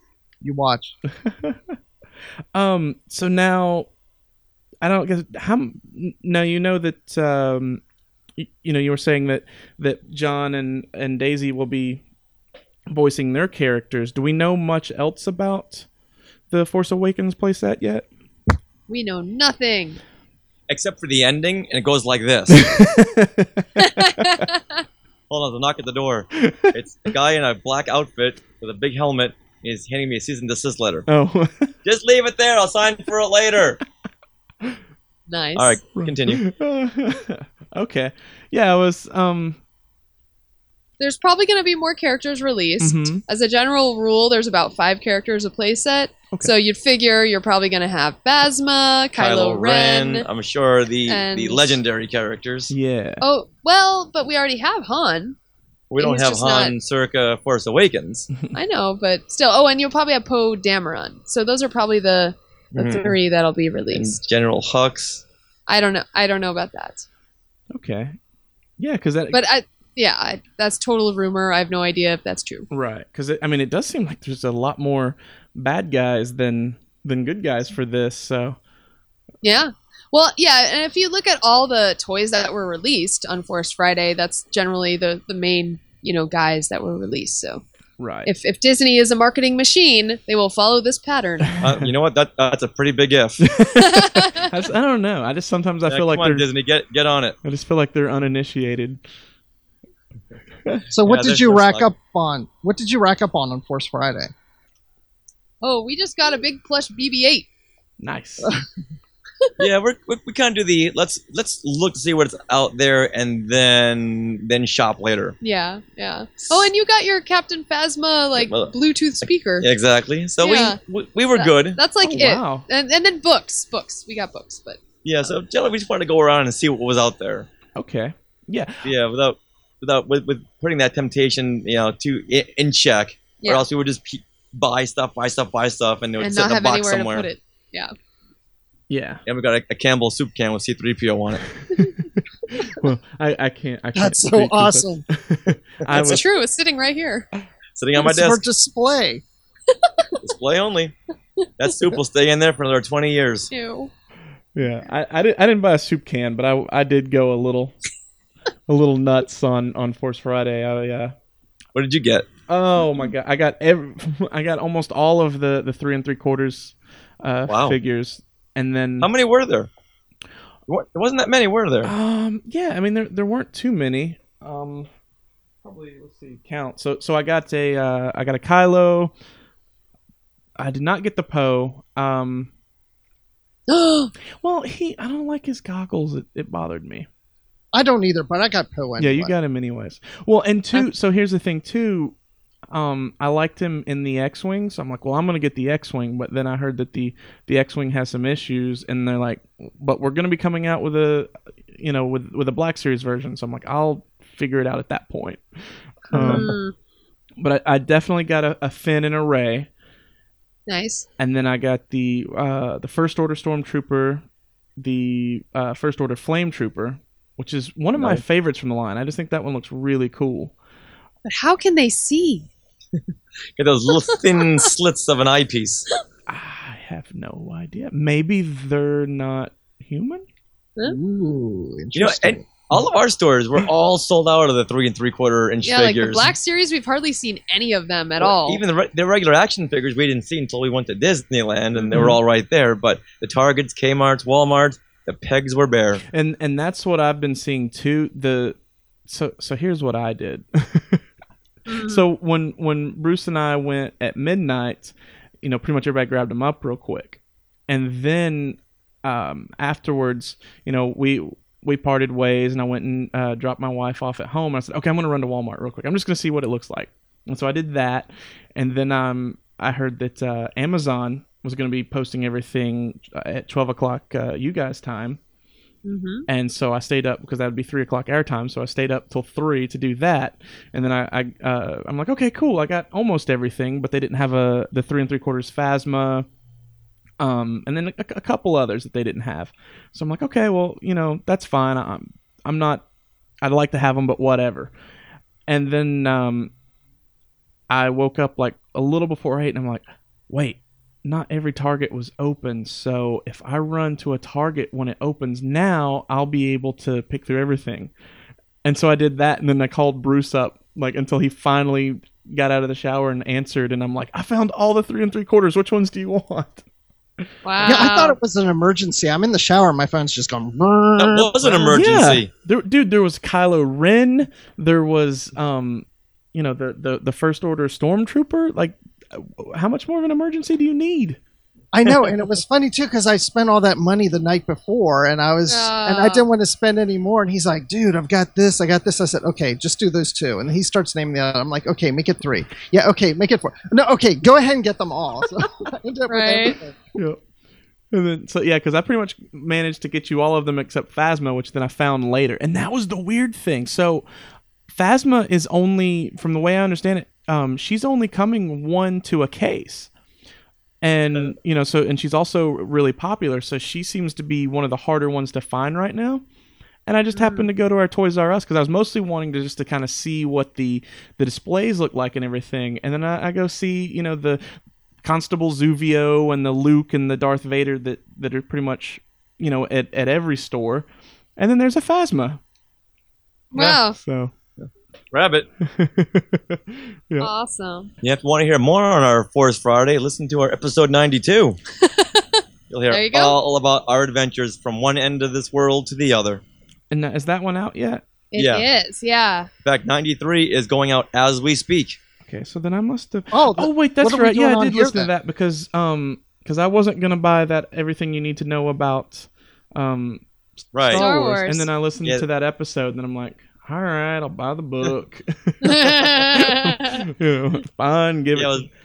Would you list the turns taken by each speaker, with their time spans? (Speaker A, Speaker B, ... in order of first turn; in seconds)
Speaker A: 0.4-0.9, 100.9-104.3, 143.9-145.0, 148.0-149.2, 187.7-189.3, 230.8-232.7, 317.6-321.7, 331.7-346.8, 403.3-405.1
Speaker B: 1.2-1.8, 2.5-3.9, 4.8-7.8, 8.4-12.0, 12.9-15.8, 16.5-18.1, 22.5-24.5, 26.3-26.7, 31.1-31.7, 35.9-39.6, 42.8-43.2, 52.7-53.2, 67.7-68.2, 68.8-69.4, 72.7-78.6, 88.0-88.3, 91.5-91.9, 93.4-96.5, 97.4-99.0, 108.0-108.5, 122.0-122.7, 127.8-128.9, 138.9-139.2, 141.6-146.2, 154.5-157.8, 158.7-161.1, 162.5-169.1, 171.8-174.9, 175.6-179.1, 180.6-182.5, 184.4-187.1, 189.0-192.1, 192.7-206.5, 207.4-209.7, 211.2-214.2, 214.8-220.5, 226.3-230.2, 241.9-242.2, 246.1-251.0, 251.8-275.2, 276.3-286.3, 287.2-292.8, 293.4-294.7, 295.5-296.5, 297.7-307.9, 308.6-316.6, 321.7-331.2, 347.9-354.1, 354.7-359.9, 360.8-366.2, 366.9-374.4, 375.0-382.4, 383.5-384.3, 385.6-387.3, 396.9-398.0, 402.2-418.7
Speaker C: 18.9-20.0, 23.8-24.8, 35.3-35.8, 41.0-50.2, 51.0-51.8, 53.2-55.4, 56.0-56.7, 58.5-64.2, 65.7-67.0, 69.3-72.7, 79.4-87.6, 88.2-91.6, 93.8-94.5, 105.6-107.5, 115.4-119.7, 120.4-120.8, 121.3-125.3, 136.2-137.9, 145.9-147.3, 149.7-150.1, 151.7-152.0, 153.5-153.9, 183.7-184.1, 206.1-206.7, 210.7-211.1, 221.2-222.5, 223.9-224.7, 235.6-238.6, 251.7-252.0, 275.8-276.3, 317.4-318.2, 335.5-336.2, 346.1-346.6, 367.1-367.5, 383.5-384.0, 387.2-387.9, 391.8-393.4, 398.3-399.5, 410.9-411.7, 415.6-417.1
Speaker D: 20.7-22.7, 25.3-31.1, 31.8-33.8, 35.5-36.4, 49.1-52.7, 55.9-58.3, 62.7-63.1, 63.9-65.2, 91.6-93.5, 95.9-97.4, 101.0-101.9, 109.6-115.4, 118.3-121.8, 125.0-127.5, 128.8-137.3, 139.2-141.4, 145.9-146.2, 147.8-148.4, 150.2-150.9, 151.6-153.5, 161.7-162.3, 167.5-167.8, 169.0-169.7, 170.7-171.9, 217.9-218.2, 223.6-225.9, 231.9-236.3, 238.2-246.0, 321.0-322.3, 384.6-385.5, 388.0-391.6, 392.7-396.4, 398.4-398.7, 399.6-402.0, 410.7-411.0, 418.3-418.7